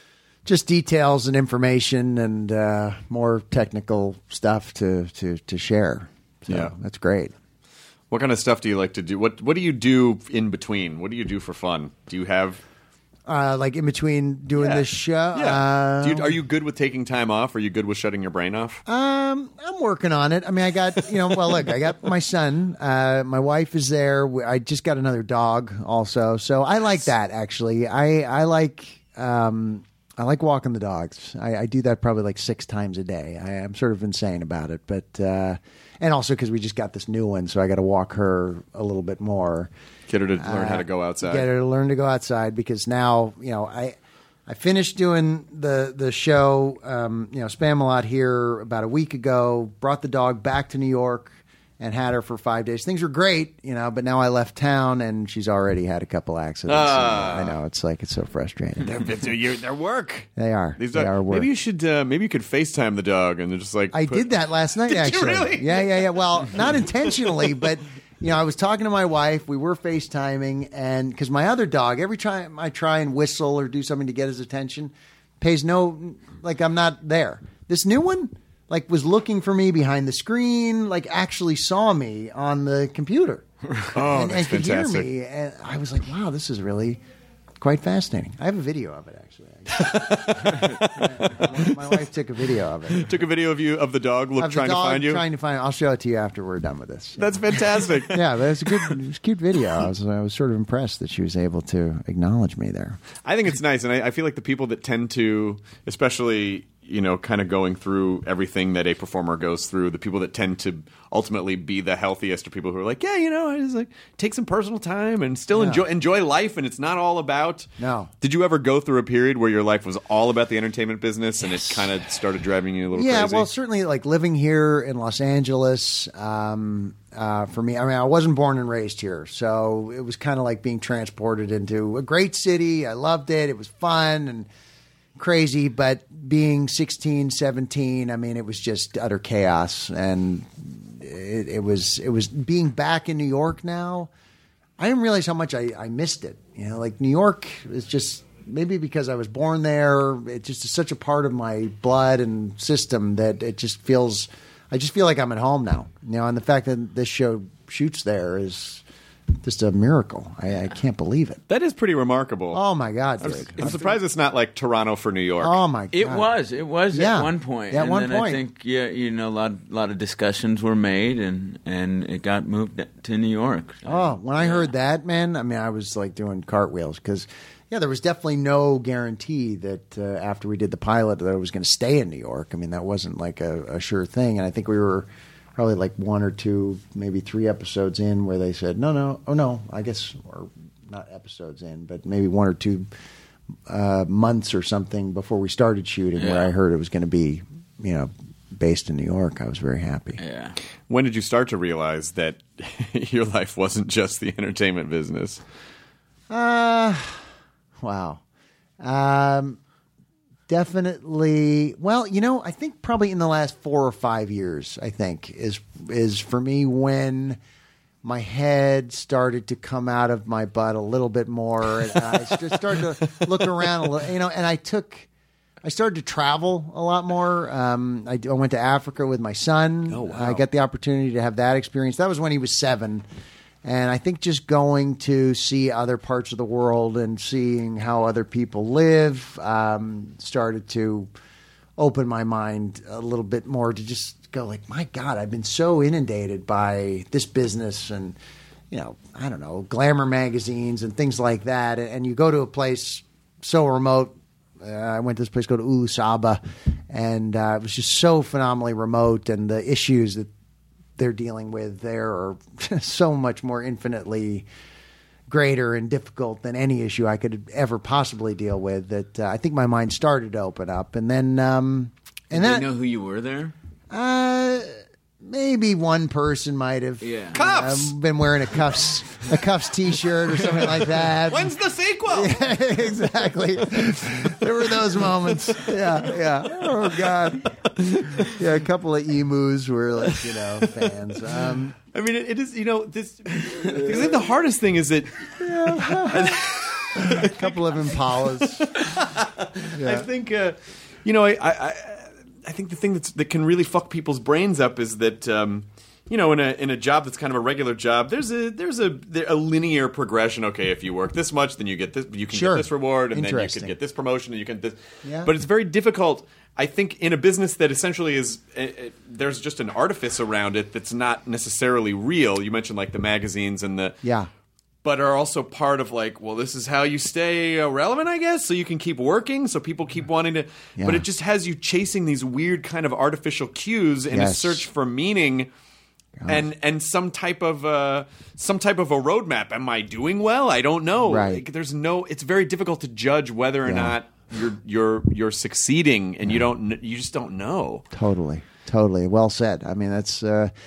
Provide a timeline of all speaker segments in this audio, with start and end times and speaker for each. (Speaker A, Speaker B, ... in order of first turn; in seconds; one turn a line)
Speaker A: 0.5-7.3
Speaker B: 6.5-6.7
Speaker B: 8.1-12.6
Speaker A: 13.3-16.4
Speaker B: 14.6-18.8
Speaker A: 18.9-39.7
Speaker B: 40.1-41.5
Speaker A: 40.4-59.1
Speaker B: 56.7-57.6
Speaker B: 58.8-64.3
Speaker A: 60.4-61.5
Speaker A: 63.9-83.4
Speaker B: 64.9-67.6
Speaker C: 83.7-83.9
Speaker B: 83.9-85.1
Speaker A: 84.0-87.0
Speaker A: 87.6-93.1
Speaker B: 89.7-91.7
Speaker B: 93.0-95.2
Speaker A: 94.4-103.0
Speaker B: 97.2-98.2
Speaker B: 103.2-117.7
Speaker A: 115.5-115.8
Speaker A: 117.8-118.1
Speaker B: 118.2-123.5
Speaker A: 121.4-121.9
Speaker A: 122.9-134.5
Speaker A: 135.2-144.1
Speaker A: 144.8-158.8
Speaker A: 159.4-161.4
Speaker B: 161.5-162.6
Speaker A: 162.5-163.9
Speaker B: 163.2-165.6
Speaker A: 165.4-166.3
Speaker C: 165.9-174.7
Speaker A: 166.9-168.4
Speaker A: 173.9-192.9
Speaker A: 193.7-200.2
Speaker C: 196.2-196.5
Speaker C: 200.2-200.6
Speaker B: 200.9-205.4
Speaker A: 206.3-207.2
Speaker A: 207.8-208.2
Speaker A: 208.8-209.6
Speaker A: 210.5-217.4
Speaker A: 218.0-225.1
Speaker A: 225.6-233.1
Speaker B: 229.9-230.4
Speaker A: 233.6-241.1
Speaker A: 241.8-248.2
Speaker A: 248.7-260.3
Speaker A: 261.0-264.5
Speaker A: 265.3-272.7
Speaker C: 272.3-273.6
Speaker A: 273.9-274.7
Speaker A: 275.2-281.5
Speaker C: 277.0-277.4
Speaker B: 277.3-277.9
Speaker B: 280.4-282.6
Speaker A: 282.1-287.5
Speaker B: 285.1-285.9
Speaker B: 286.6-288.4
Speaker A: 288.2-291.8
Speaker B: 290.1-290.9
Speaker B: 291.9-324.0
Speaker A: 295.4-296.4
Speaker A: 296.9-298.7
Speaker A: 299.8-300.1
Speaker A: 312.3-313.7
Speaker A: 315.0-315.3
Speaker A: 324.0-324.3
Speaker B: 324.8-335.5
Speaker A: 330.8-331.0
Speaker A: 334.1-334.7
Speaker A: 336.2-336.5
Speaker B: 336.3-347.9
Speaker A: 341.0-341.4
Speaker A: 343.6-344.0
Speaker A: 347.9-350.5